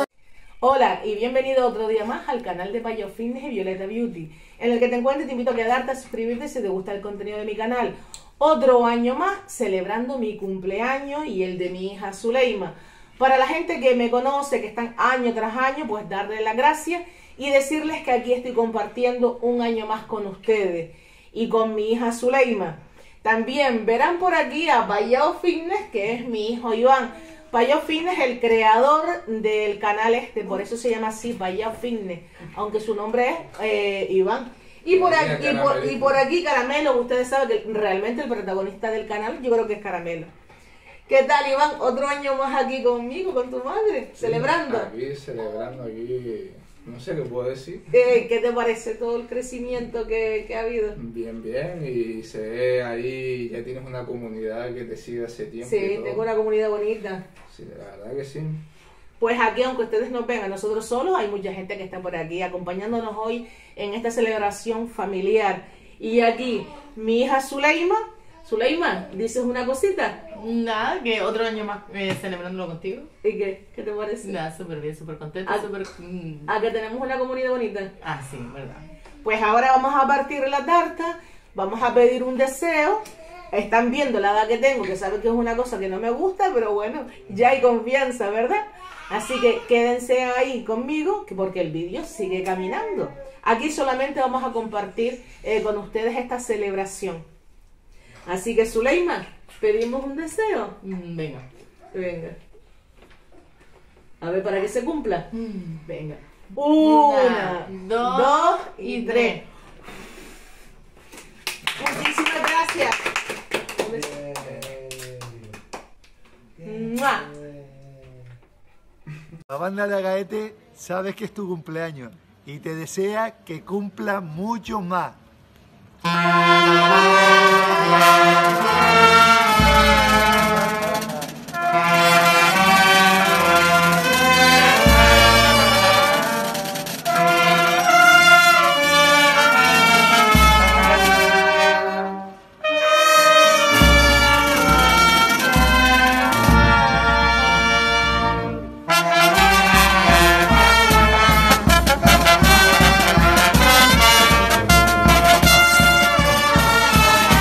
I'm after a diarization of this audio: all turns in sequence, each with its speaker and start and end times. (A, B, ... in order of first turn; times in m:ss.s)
0:00.6-0:40.3 A
0:34.9-0:36.2 B
0:41.1-0:44.9 A
0:44.2-0:47.9 B
0:47.9-0:51.0 A
0:51.0-0:56.2 B
0:55.6-0:57.2 A
0:57.5-0:58.6 B
0:59.2-1:10.2 A
1:10.3-1:13.1 C
1:13.2-1:14.4 A
1:14.2-1:16.5 C
1:16.5-1:17.9 A
1:18.0-1:18.9 C
1:19.2-1:37.2 A
1:38.2-1:40.8 A
1:40.8-1:41.5 C
1:41.9-1:42.4 A
1:44.2-1:45.3 A
1:45.3-1:46.2 C
1:46.5-1:49.4 A
1:46.8-1:49.4 C
1:51.8-1:53.0 A
1:53.7-1:54.2 A
1:54.4-1:54.8 B
1:56.6-1:57.3 A
1:59.5-2:05.2 D